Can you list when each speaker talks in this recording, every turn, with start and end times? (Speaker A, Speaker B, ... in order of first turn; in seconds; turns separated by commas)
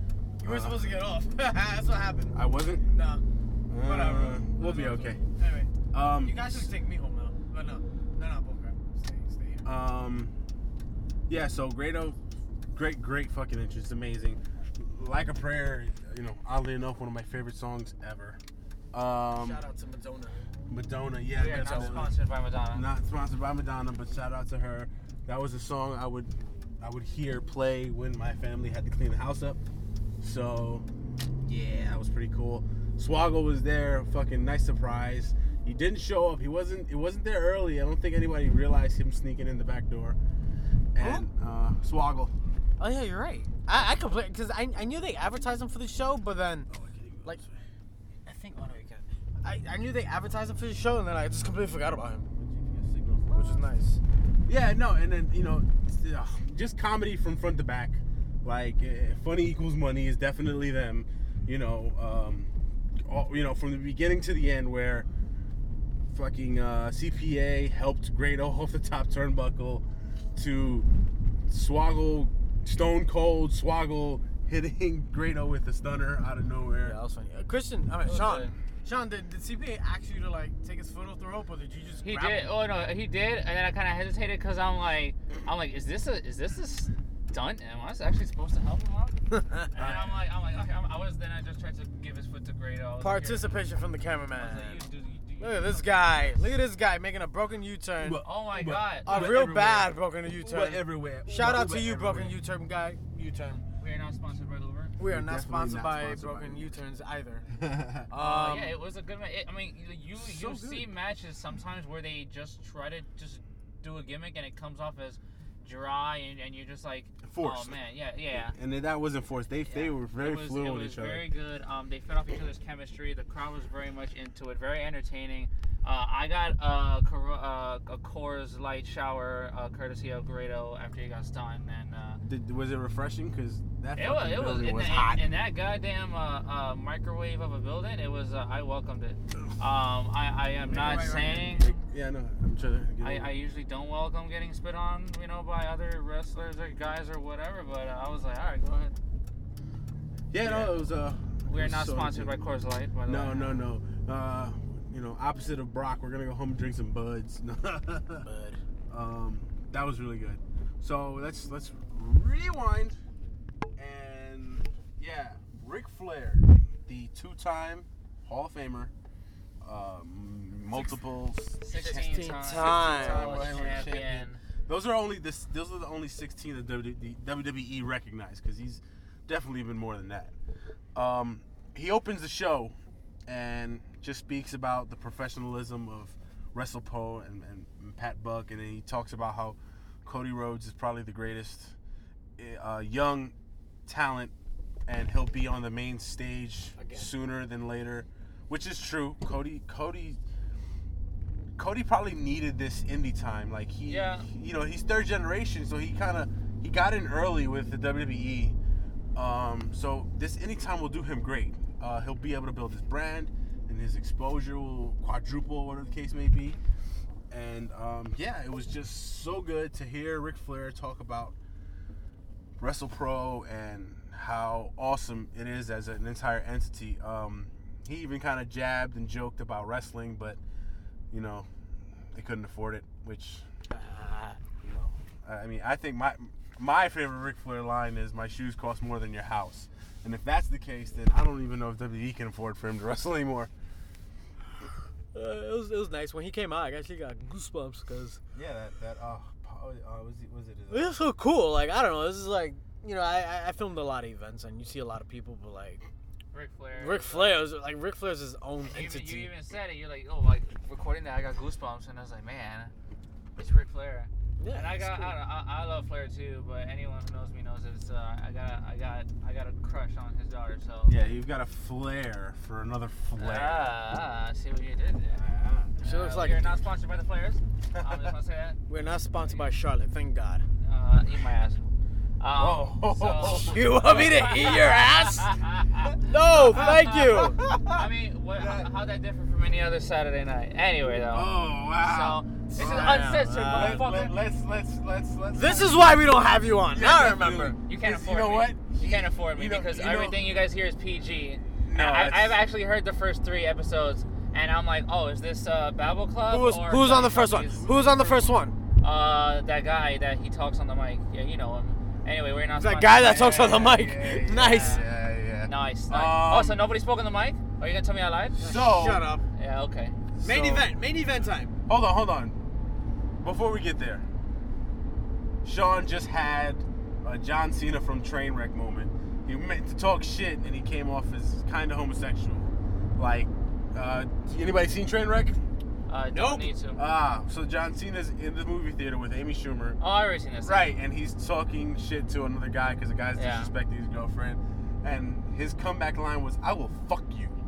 Speaker A: 0.4-2.4, Speaker B: 0.4-0.9, Speaker B: 2.3-2.9, Speaker A: 2.9-3.2, Speaker B: 3.7-5.2, Speaker A: 3.8-9.7, Speaker B: 5.9-6.7, Speaker B: 9.6-10.3, Speaker B: 11.3-12.2, Speaker B: 12.7-18.4, Speaker B: 18.9-19.6, Speaker A: 19.3-20.4, Speaker B: 20.7-22.1, Speaker C: 21.3-22.8, Speaker A: 21.4-22.1, Speaker B: 22.7-29.6, Speaker B: 30.2-30.9, Speaker B: 31.4-40.2, Speaker B: 40.9-42.3, Speaker A: 41.0-41.2, Speaker A: 42.8-46.7, Speaker B: 46.7-47.6, Speaker A: 48.2-52.3, Speaker B: 52.4-53.7, Speaker A: 53.3-54.0, Speaker B: 54.5-62.5, Speaker B: 63.0-65.1, Speaker B: 66.1-69.8, Speaker B: 70.3-70.9, Speaker B: 71.5-77.0, Speaker A: 76.8-82.5, Speaker C: 78.0-78.5, Speaker C: 82.0-89.2, Speaker A: 89.3-89.7, Speaker C: 89.7-93.5, Speaker B: 89.7-90.2, Speaker A: 93.0-94.8, Speaker C: 94.4-96.4, Speaker A: 95.4-98.2, Speaker B: 98.0-102.3, Speaker C: 98.2-99.4, Speaker A: 99.0-103.6, Speaker C: 103.8-104.9, Speaker A: 105.0-107.5, Speaker B: 105.0-106.7, Speaker B: 107.5-108.1, Speaker A: 108.1-108.8, Speaker C: 108.2-118.5, Speaker B: 110.2-110.9, Speaker B: 117.2-117.8, Speaker B: 118.3-121.3, Speaker C: 119.7-132.2, Speaker B: 132.2-135.3, Speaker C: 133.9-141.8, Speaker A: 140.7-141.6, Speaker B: 140.8-143.3, Speaker C: 143.0-148.9, Speaker B: 150.3-152.4, Speaker C: 150.4-150.7, Speaker C: 151.5-153.7, Speaker B: 153.1-158.3, Speaker A: 158.2-158.6, Speaker B: 158.9-163.0, Speaker B: 163.8-168.9, Speaker B: 169.6-180.3, Speaker C: 171.6-174.4, Speaker A: 171.7-173.6, Speaker B: 180.9-182.8, Speaker B: 183.3-191.8, Speaker B: 192.4-193.3, Speaker B: 193.8-194.3, Speaker B: 194.9-200.2, Speaker A: 196.8-197.1, Speaker B: 201.6-208.6, Speaker C: 203.9-204.3, Speaker B: 209.1-216.6, Speaker B: 217.3-221.3, Speaker B: 222.6-230.4, Speaker B: 231.1-231.5, Speaker B: 232.1-233.5, Speaker A: 233.7-234.4, Speaker B: 234.6-243.5, Speaker A: 245.1-248.2, Speaker B: 248.3-250.9, Speaker A: 250.7-255.8, Speaker C: 256.3-257.4, Speaker A: 256.7-259.3, Speaker C: 258.7-262.7, Speaker C: 263.4-270.9, Speaker A: 264.4-265.1, Speaker B: 270.9-273.7, Speaker C: 273.2-275.2, Speaker B: 275.1-275.8, Speaker C: 275.8-278.6, Speaker A: 275.8-276.6, Speaker B: 277.7-278.1, Speaker A: 278.7-280.4, Speaker C: 280.6-281.7, Speaker C: 282.2-294.1, Speaker B: 282.3-284.0, Speaker A: 283.2-285.4, Speaker A: 286.0-287.4, Speaker B: 286.5-288.7, Speaker B: 291.0-295.8, Speaker A: 292.5-293.9, Speaker A: 295.3-297.6, Speaker B: 296.7-300.2, Speaker C: 297.6-307.7, Speaker B: 301.6-302.4, Speaker A: 306.2-308.6, Speaker B: 307.5-308.4, Speaker C: 308.8-314.9, Speaker A: 312.6-314.8, Speaker B: 313.0-316.6, Speaker C: 315.4-318.4, Speaker B: 318.3-319.0, Speaker A: 318.4-319.2, Speaker C: 319.4-319.9, Speaker B: 320.1-320.7, Speaker A: 320.2-321.5, Speaker B: 321.7-322.4, Speaker B: 323.2-324.1, Speaker B: 325.4-335.4, Speaker C: 335.9-336.8, Speaker A: 336.1-336.5, Speaker B: 336.8-339.8, Speaker C: 339.8-340.7, Speaker B: 340.4-347.3, Speaker C: 343.1-343.5